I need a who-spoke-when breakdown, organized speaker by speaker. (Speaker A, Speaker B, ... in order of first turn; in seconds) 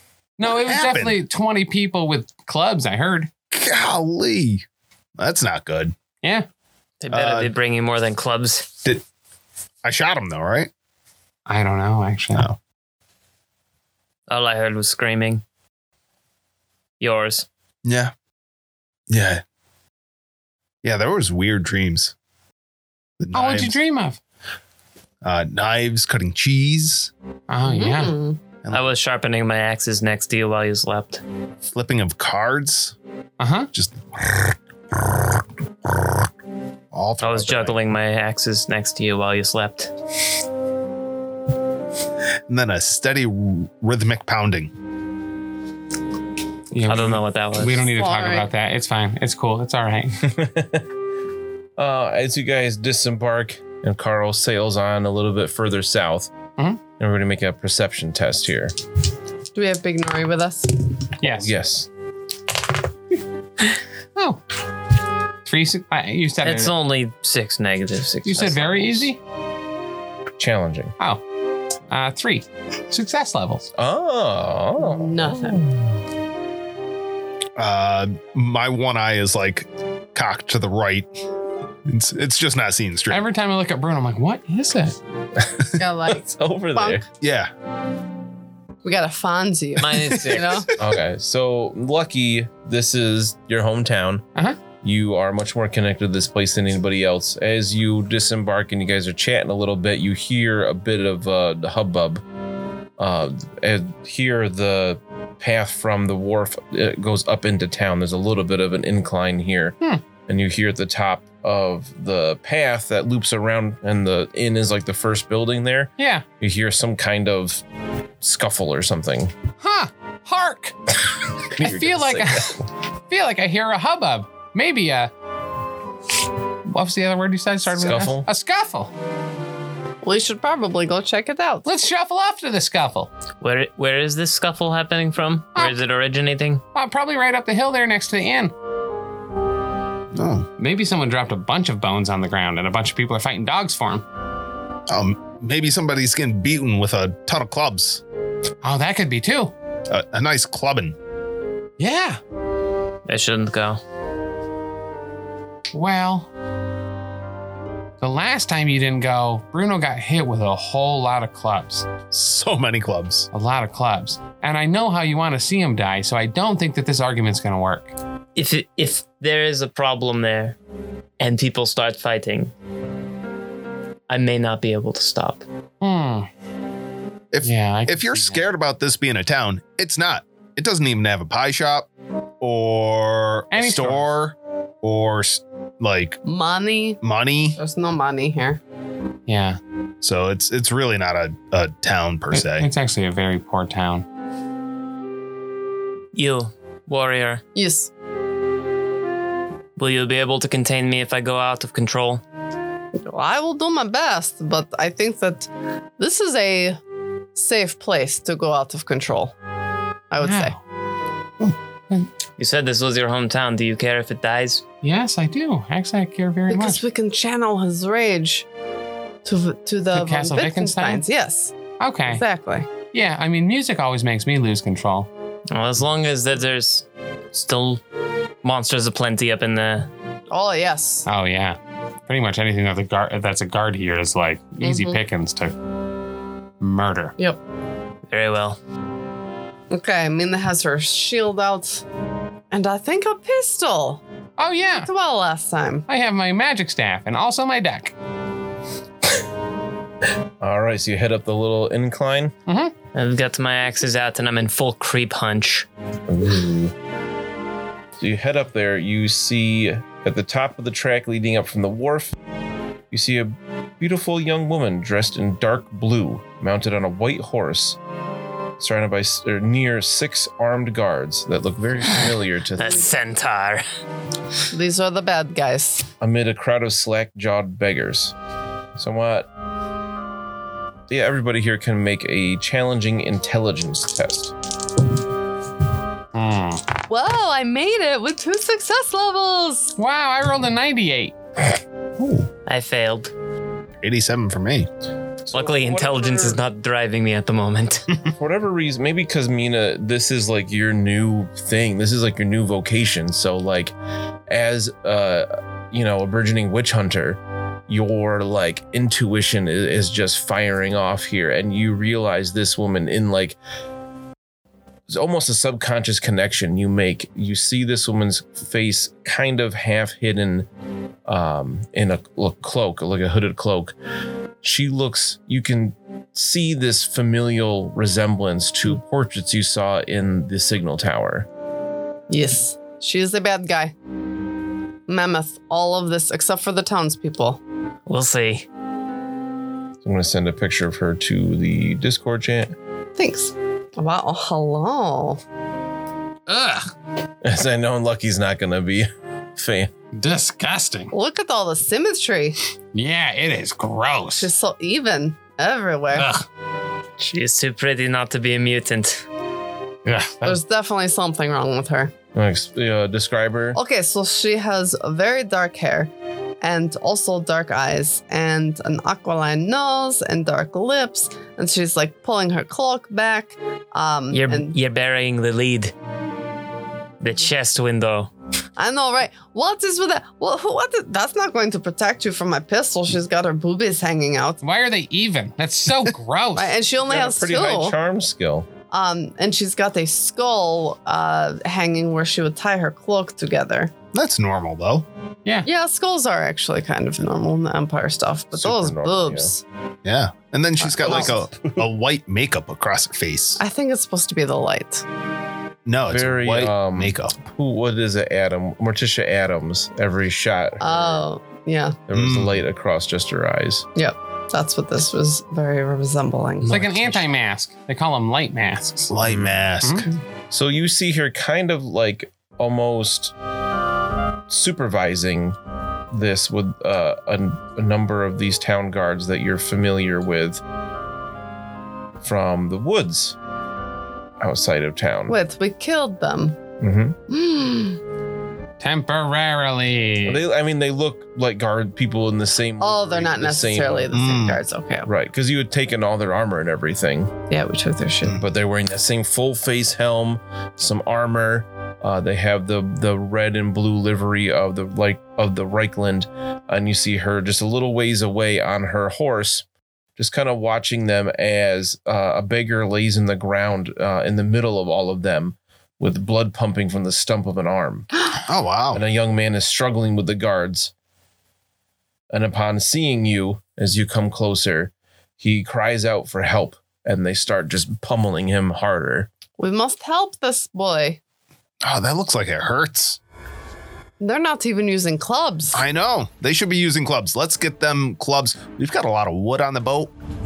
Speaker A: 0.4-3.3, 11.4-12.5, 23.3-24.2, 27.5-28.2, 33.4-33.7, 46.7-50.2, 61.2-61.5, 65.4-66.7, 68.2-69.2, 71.9-73.7, 83.1-85.0, 94.3-94.6, 116.0-116.2, 119.6-120.7, 121.6-125.1, 126.7-128.9, 131.6-133.1, 136.7-138.5, 140.6-144.0, 148.6-149.5, 151.8-152.2, 155.7-156.3, 158.0-161.9, 163.3-167.9, 175.8-176.3, 177.4-178.4, 183.5-184.1, 189.3-189.6, 192.3-194.0, 210.2-210.6, 214.8-216.8, 219.9-221.0, 221.8-222.2, 222.9-225.1, 231.1-235.5, 236.6-237.2, 244.4-244.9, 245.9-247.9, 252.5-252.7, 286.1-286.6, 289.8-291.1, 346.3-346.7, 349.9-350.9, 352.7-354.3, 355.9-356.2, 359.8-360.4, 384.4-386.6, 416.4-418.9, 419.6-419.9, 438.6-440.2
Speaker B: 0.4-1.2, 3.5-4.6, 5.2-6.0, 7.1-7.5, 9.8-10.7, 17.8-18.1, 19.1-19.4, 20.8-22.1, 23.2-23.8, 25.2-27.1, 28.6-28.9, 31.7-32.9, 33.7-34.5, 36.9-37.8, 42.5-44.7, 77.6-81.1, 81.8-83.2, 87.2-87.5, 140.1-140.5, 144.9-148.0, 149.9-150.9, 162.1-163.3, 177.3-181.9, 182.4-186.2, 187.0-187.6, 190.0-192.7, 292.0-292.2, 293.8-294.7, 393.9-394.9, 399.8-403.4, 405.6-407.2, 411.9-412.4, 418.9-419.9, 443.9-444.4, 468.2-468.8, 481.6-483.0, 485.5-489.9
Speaker C: 7.0-8.7, 14.3-15.4, 17.0-17.4, 28.7-31.2, 37.2-39.9, 46.9-47.8, 66.4-69.1, 89.8-90.7, 133.4-136.6, 153.1-153.8, 168.3-170.6, 171.2-172.5, 174.1-175.4, 196.1-197.4, 199.8-202.2, 212.4-214.6, 225.5-227.8, 228.4-229.9, 238.1-238.6, 252.9-255.7, 272.6-273.6, 292.4-293.1, 295.3-297.9, 337.9-338.4, 357.0-359.0, 374.1-375.7, 377.0-378.1
Speaker D: 27.6-28.4, 47.9-48.5, 59.5-60.7, 74.8-75.7, 85.7-87.0, 88.8-90.7, 130.0-131.7, 186.2-187.0, 187.6-188.6, 197.5-197.9, 203.0-206.8, 207.3-209.3, 210.1-210.5, 216.5-218.4, 219.2-222.7, 230.3-231.1, 234.6-235.0, 239.7-241.8, 242.5-244.0, 244.7-245.8, 274.5-275.9, 286.9-289.8, 332.1-333.7, 334.9-337.4, 343.0-345.2, 350.9-352.4, 354.1-356.1, 360.2-361.9, 363.5-374.6, 378.6-384.4, 386.3-387.8, 388.7-393.7, 395.4-399.4, 403.4-404.8, 410.6-411.8, 413.7-417.0, 435.1-436.4, 437.1-437.8, 442.6-444.9, 447.3-448.2, 479.4-481.0, 484.0-485.6
Speaker E: 50.3-50.9, 51.8-56.3, 56.9-58.7, 61.3-61.9, 70.4-70.9, 73.8-75.7, 85.4-87.0, 90.8-102.2, 103.0-117.6, 118.2-119.3, 121.5-122.6, 127.7-128.3, 250.4-252.3, 256.1-256.7, 258.0-262.1, 262.9-267.8, 268.6-272.9, 276.0-278.1, 278.8-279.3, 280.9-284.3, 295.2-296.4, 298.1-303.7, 304.3-313.4, 314.9-320.5, 321.1-323.7, 324.4-331.3, 339.8-342.5, 347.2-349.7, 362.1-363.6, 386.9-388.5, 398.3-399.3, 400.8-401.6, 405.9-411.0, 411.9-413.6, 419.0-419.5, 420.3-423.1, 424.3-425.4, 425.9-430.4, 432.0-433.1, 434.2-435.1, 436.6-437.0, 440.0-444.0, 444.8-447.1, 448.1-459.4, 460.0-468.0, 468.7-470.7, 472.1-479.1